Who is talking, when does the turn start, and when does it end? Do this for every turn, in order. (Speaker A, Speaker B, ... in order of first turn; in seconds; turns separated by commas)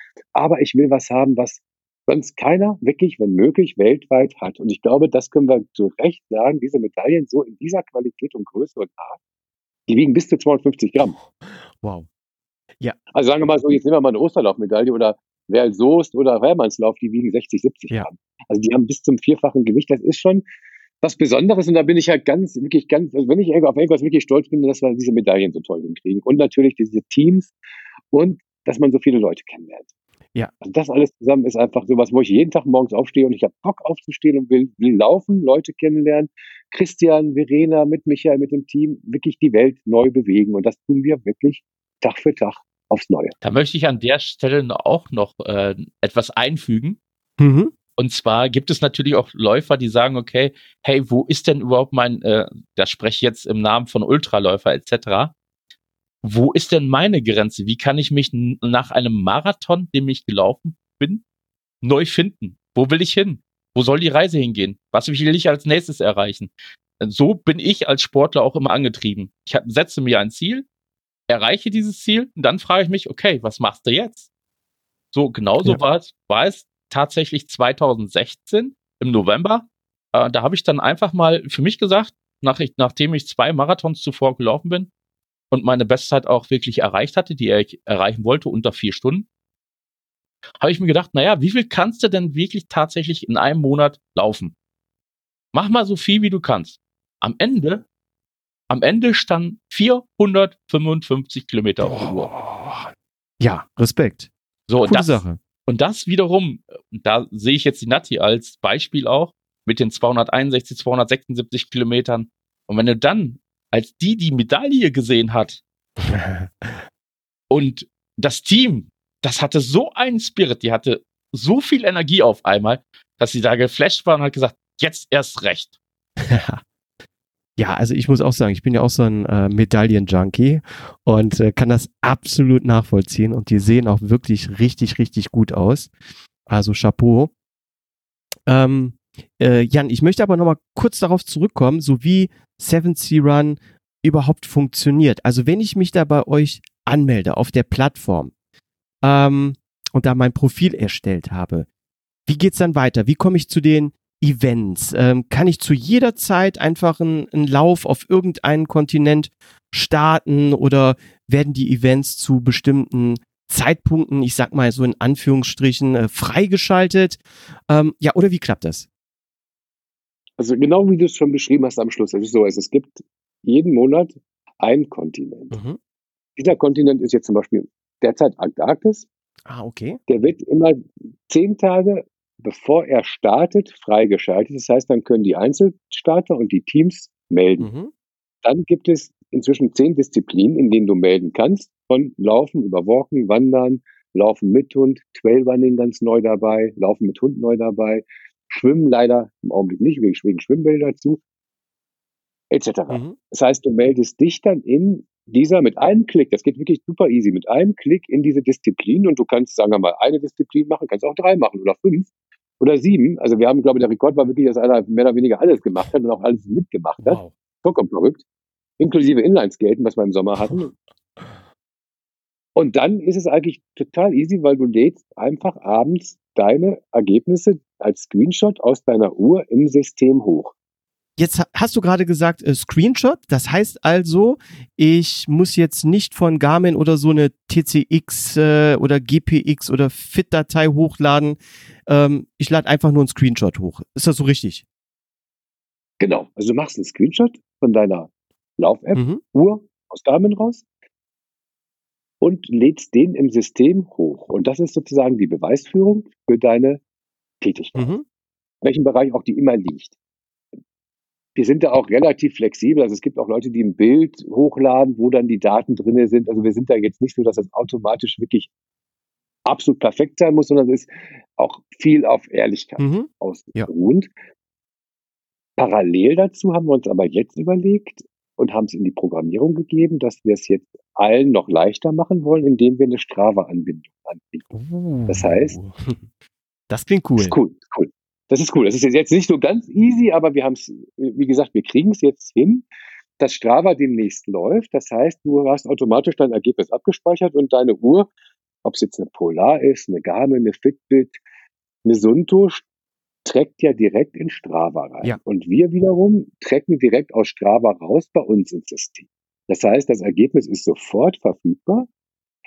Speaker A: 0.3-9.2, Speaker A: 9.9-11.1, Speaker B: 11.8-12.1, Speaker A: 13.1-20.4, Speaker A: 21.0-27.5, Speaker A: 28.1-29.9, Speaker A: 30.6-43.4, Speaker C: 43.4-47.0, Speaker B: 47.4-47.7, Speaker C: 48.0-55.3, Speaker C: 56.2-61.2, Speaker C: 61.8-70.7, Speaker C: 71.3-74.3, Speaker C: 75.1-84.9, Speaker C: 85.5-89.3, Speaker C: 90.6-94.5, Speaker C: 95.5-97.8, Speaker C: 98.7-102.3, Speaker B: 101.8-104.3, Speaker C: 104.7-115.6, Speaker B: 104.8-105.4, Speaker B: 116.0-116.8, Speaker C: 117.5-125.8, Speaker B: 126.2-126.6, Speaker B: 127.6-135.9, Speaker B: 136.5-137.3, Speaker B: 138.5-148.3, Speaker B: 149.0-151.7, Speaker B: 152.3-168.9, Speaker A: 170.4-175.6, Speaker B: 175.5-175.8, Speaker A: 176.4-179.1, Speaker B: 179.5-180.0, Speaker A: 180.1-187.7, Speaker B: 187.6-187.9, Speaker A: 188.4-201.2, Speaker A: 202.5-218.2, Speaker B: 202.9-203.2, Speaker B: 217.0-217.3, Speaker A: 218.8-220.7, Speaker A: 222.6-230.5, Speaker B: 231.2-244.6, Speaker A: 246.0-250.6, Speaker B: 248.9-249.2, Speaker A: 252.2-256.8, Speaker A: 257.4-257.9, Speaker B: 257.8-258.1, Speaker A: 258.6-259.9, Speaker A: 261.4-268.5, Speaker A: 269.4-274.1, Speaker B: 272.8-273.7, Speaker A: 275.6-284.4, Speaker B: 284.5-286.0, Speaker A: 285.1-285.6, Speaker B: 286.7-287.4, Speaker A: 287.2-292.7, Speaker A: 293.2-298.1, Speaker A: 298.6-301.2, Speaker A: 301.9-302.6, Speaker A: 303.2-311.9